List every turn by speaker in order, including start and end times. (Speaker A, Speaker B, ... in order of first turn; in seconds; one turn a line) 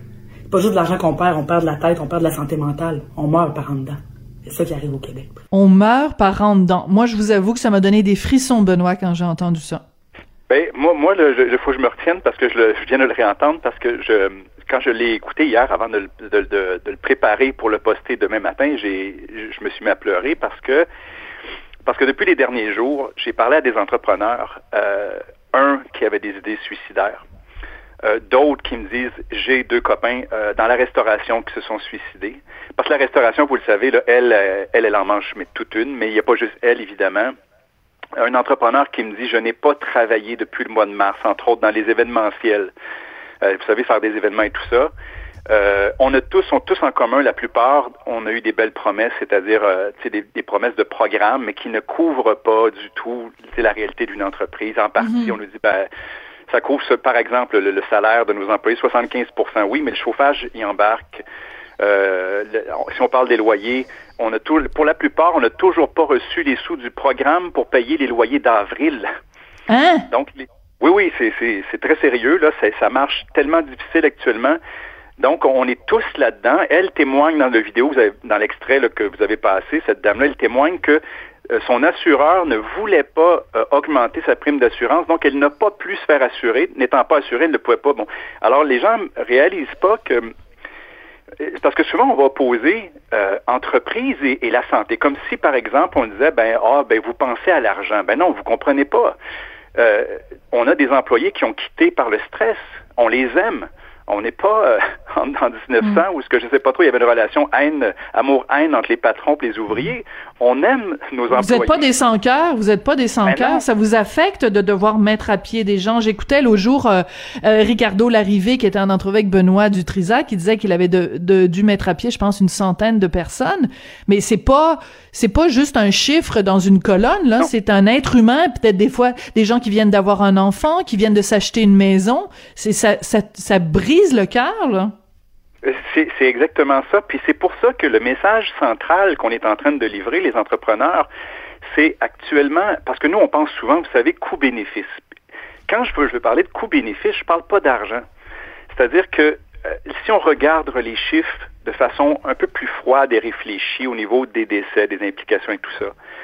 Speaker A: 0.5-5.4
Speaker B: 5.5-9.8
Speaker C: 10.5-20.9
Speaker C: 21.8-27.2
Speaker C: 28.0-37.4
Speaker C: 38.1-42.7
Speaker C: 43.4-44.9
Speaker C: 45.5-55.9
Speaker B: 55.0-55.4
Speaker C: 56.5-61.2
Speaker C: 61.8-69.1
Speaker B: 69.7-70.0
Speaker C: 70.1-74.6
Speaker C: 75.2-90.3
Speaker C: 91.4-99.2
Speaker C: 99.7-111.8
Speaker B: 111.3-134.9
Speaker C: 113.2-113.6
Speaker C: 135.6-141.1
Speaker C: 141.7-145.0
Speaker C: 145.7-148.1
Speaker C: 148.7-155.9